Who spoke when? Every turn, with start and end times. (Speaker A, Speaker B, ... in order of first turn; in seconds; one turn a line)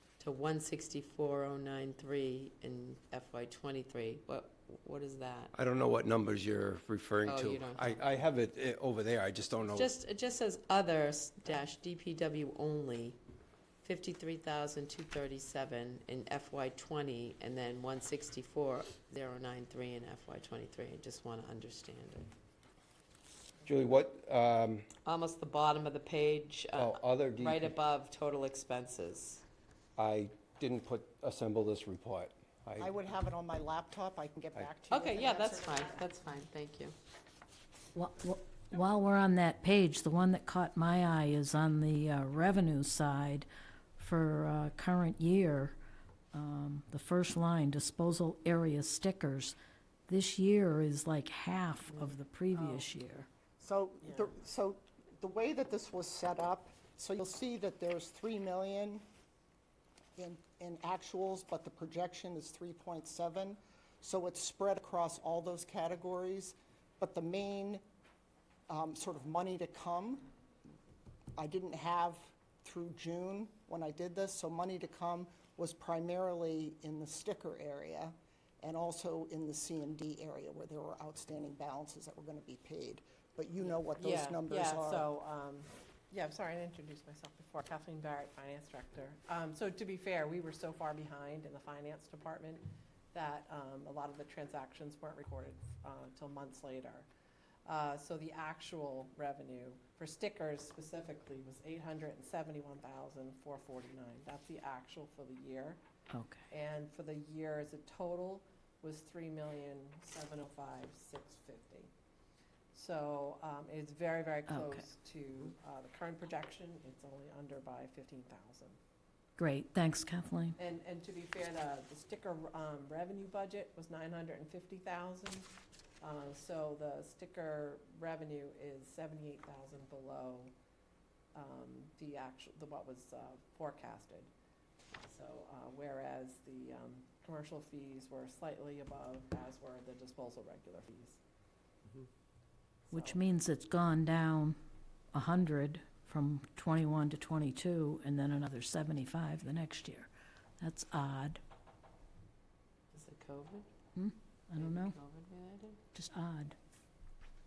Speaker A: 0.2-5.5
Speaker B: 5.5-9.9
Speaker A: 7.2-8.0
Speaker A: 9.7-13.2
Speaker A: 13.8-22.3
Speaker B: 23.6-24.9
Speaker A: 25.0-29.4
Speaker B: 26.7-27.8
Speaker B: 29.9-32.9
Speaker C: 32.8-36.0
Speaker A: 34.9-36.9
Speaker D: 37.9-45.8
Speaker D: 46.3-49.5
Speaker D: 50.1-53.3
Speaker C: 53.6-59.0
Speaker C: 60.1-67.8
Speaker C: 68.7-70.2
Speaker C: 71.4-85.1
Speaker E: 83.7-97.1
Speaker E: 97.7-105.8
Speaker D: 106.1-106.5
Speaker E: 106.5-111.9
Speaker E: 112.7-118.8
Speaker D: 114.5-114.9
Speaker D: 119.4-120.6
Speaker E: 120.6-125.5
Speaker E: 126.0-130.5
Speaker E: 131.3-134.3
Speaker E: 135.0-141.2
Speaker E: 142.9-143.2
Speaker D: 142.9-144.6
Speaker D: 145.1-151.4
Speaker A: 152.9-153.7
Speaker D: 153.9-155.0
Speaker A: 154.6-155.8
Speaker D: 155.9-156.5